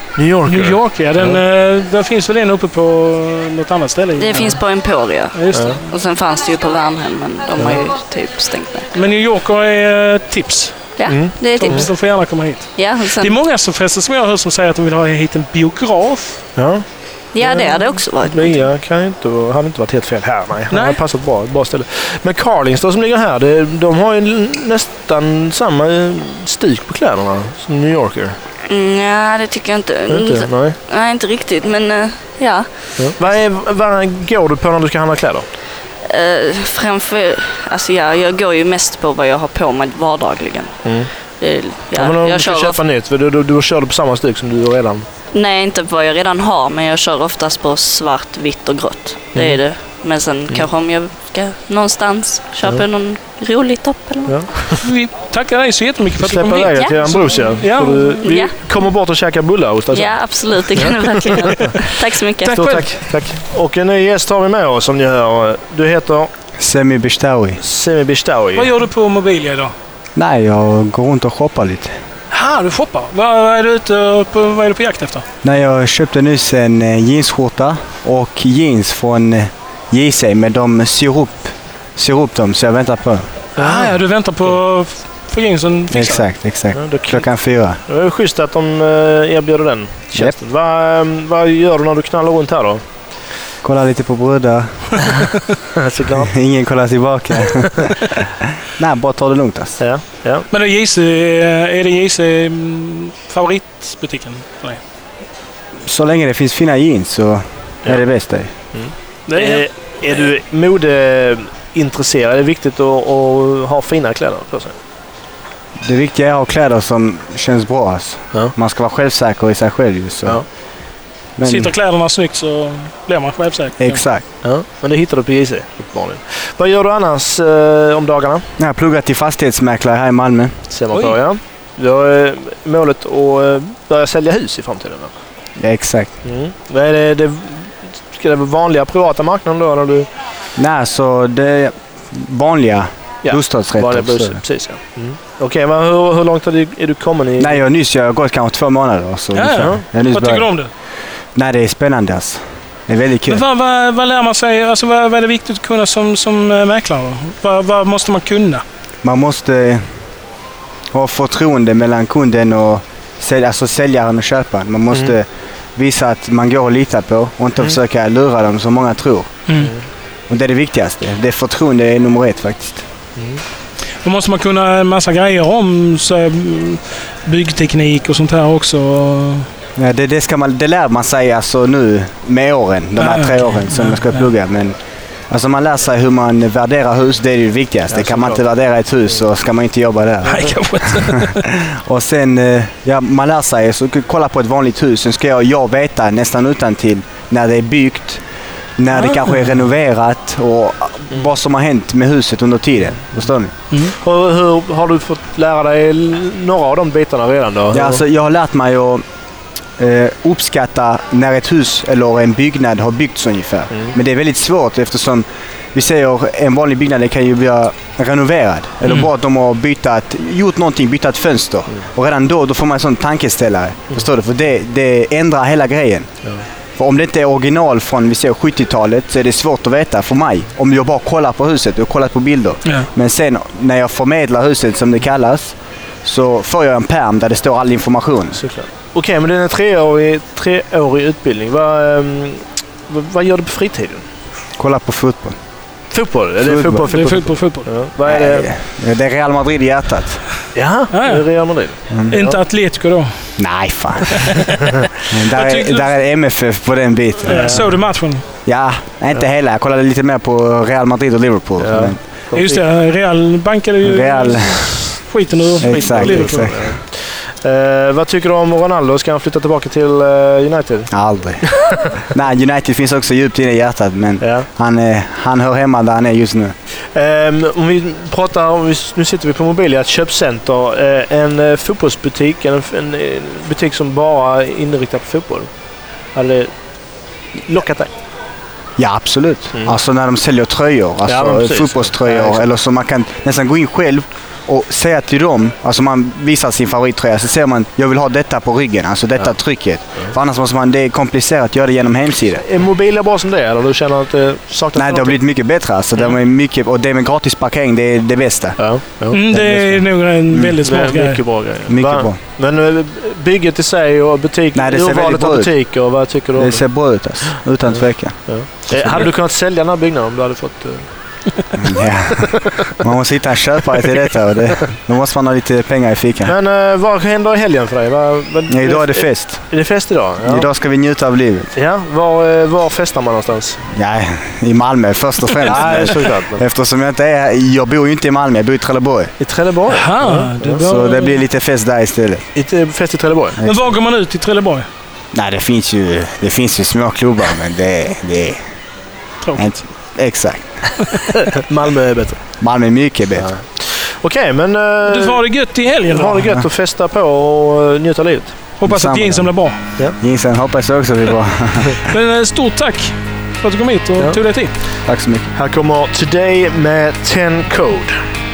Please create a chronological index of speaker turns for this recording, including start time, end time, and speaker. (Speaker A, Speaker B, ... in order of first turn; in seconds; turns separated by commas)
Speaker A: 0.1-1.4, Speaker B: 0.5-4.6, Speaker C: 4.2-8.9, Speaker B: 5.3-5.8, Speaker A: 5.5-5.8, Speaker B: 8.9-16.4, Speaker C: 11.0-11.9, Speaker A: 11.1-11.9, Speaker C: 12.8-13.4, Speaker A: 16.6-16.8, Speaker C: 17.3-18.7, Speaker A: 17.4-28.4, Speaker B: 20.7-21.0, Speaker C: 28.7-33.1, Speaker A: 30.1-30.8, Speaker A: 33.0-35.5, Speaker C: 36.0-40.8, Speaker A: 40.8-41.1, Speaker C: 41.4-42.8, Speaker A: 41.9-45.0, Speaker C: 45.3-54.4, Speaker A: 49.3-49.6, Speaker A: 54.3-54.8, Speaker B: 54.8-58.4, Speaker A: 56.2-61.8, Speaker C: 56.7-57.1, Speaker C: 58.2-58.5, Speaker C: 59.9-62.6, Speaker B: 62.5-63.0, Speaker A: 62.5-66.3, Speaker D: 66.6-67.6, Speaker A: 67.6-68.7, Speaker B: 68.5-69.7, Speaker D: 70.2-71.9, Speaker B: 72.3-75.2, Speaker D: 75.4-83.3, Speaker A: 83.6-84.0, Speaker B: 83.6-86.2, Speaker D: 85.9-87.8, Speaker A: 86.7-87.3, Speaker A: 87.8-92.8, Speaker D: 93.6-95.0, Speaker A: 95.8-96.3, Speaker D: 96.2-97.7, Speaker D: 98.8-99.8, Speaker A: 99.8-100.5, Speaker B: 100.5-104.8, Speaker D: 105.8-108.5, Speaker A: 108.7-114.7, Speaker B: 109.3-109.9, Speaker D: 115.8-120.4, Speaker D: 121.4-121.7, Speaker B: 121.4-124.0, Speaker D: 123.8-124.2, Speaker A: 124.4-128.5, Speaker D: 128.6-130.5, Speaker A: 130.7-135.1, Speaker B: 130.9-131.2, Speaker D: 135.6-136.1, Speaker A: 136.2-140.1, Speaker D: 140.6-144.4, Speaker A: 143.2-147.6, Speaker D: 147.4-150.5, Speaker B: 149.3-150.7, Speaker A: 149.6-149.8, Speaker D: 151.3-153.4, Speaker B: 153.3-158.6, Speaker D: 159.0-159.8, Speaker D: 160.9-169.4, Speaker A: 169.5-169.8, Speaker D: 170.3-172.8, Speaker A: 173.2-173.4, Speaker B: 174.0-179.5, Speaker D: 179.8-184.8, Speaker B: 183.0-184.3, Speaker D: 185.3-190.4, Speaker A: 187.9-188.4, Speaker B: 190.2-191.4, Speaker D: 191.7-198.2, Speaker D: 198.8-203.5, Speaker B: 198.9-199.3, Speaker A: 203.9-208.0, Speaker D: 207.7-209.0, Speaker D: 209.8-226.2, Speaker A: 213.7-213.9, Speaker D: 226.8-238.4, Speaker A: 238.3-244.0, Speaker D: 244.6-245.4, Speaker A: 245.9-248.5, Speaker D: 246.4-246.8, Speaker B: 246.9-247.8, Speaker D: 248.0-250.2, Speaker A: 250.5-252.4, Speaker B: 250.9-251.5, Speaker D: 251.9-252.2, Speaker B: 252.1-253.3, Speaker D: 253.4-254.2, Speaker B: 254.1-254.4, Speaker D: 255.1-257.6, Speaker B: 255.3-256.0, Speaker A: 257.2-257.9, Speaker B: 257.2-258.2, Speaker D: 258.4-262.0, Speaker A: 261.6-262.6, Speaker B: 262.3-266.5, Speaker D: 263.8-265.0, Speaker A: 265.5-270.9, Speaker D: 265.6-266.7, Speaker D: 270.9-271.4, Speaker A: 271.4-271.9, Speaker D: 272.1-276.5, Speaker A: 274.2-274.5, Speaker A: 276.9-285.5, Speaker A: 286.1-286.5, Speaker A: 287.4-287.9, Speaker D: 288.8-302.4, Speaker A: 291.1-292.4, Speaker A: 302.4-305.2, Speaker D: 304.7-310.6, Speaker A: 308.6-309.2, Speaker B: 309.1-311.2, Speaker A: 310.6-316.7, Speaker D: 311.7-312.2, Speaker D: 314.5-315.5, Speaker D: 316.4-319.1, Speaker A: 318.2-320.9, Speaker D: 321.6-322.3, Speaker A: 322.2-322.8, Speaker D: 322.8-326.3, Speaker A: 326.2-330.5, Speaker D: 328.5-329.5, Speaker D: 330.2-331.5, Speaker A: 331.5-333.6, Speaker D: 333.7-339.1, Speaker A: 335.4-336.4, Speaker A: 339.2-340.6, Speaker B: 339.7-341.2, Speaker D: 340.6-342.2, Speaker A: 342.3-343.4, Speaker B: 343.4-344.7, Speaker D: 345.1-348.4, Speaker B: 349.2-349.5, Speaker D: 349.4-350.7, Speaker A: 351.3-352.2, Speaker D: 352.4-353.3, Speaker A: 353.2-355.2, Speaker B: 354.8-356.3, Speaker A: 355.9-358.4, Speaker B: 358.6-359.6, Speaker D: 358.6-359.4, Speaker D: 360.0-361.8, Speaker B: 361.9-364.5, Speaker D: 364.9-365.3, Speaker A: 365.3-368.0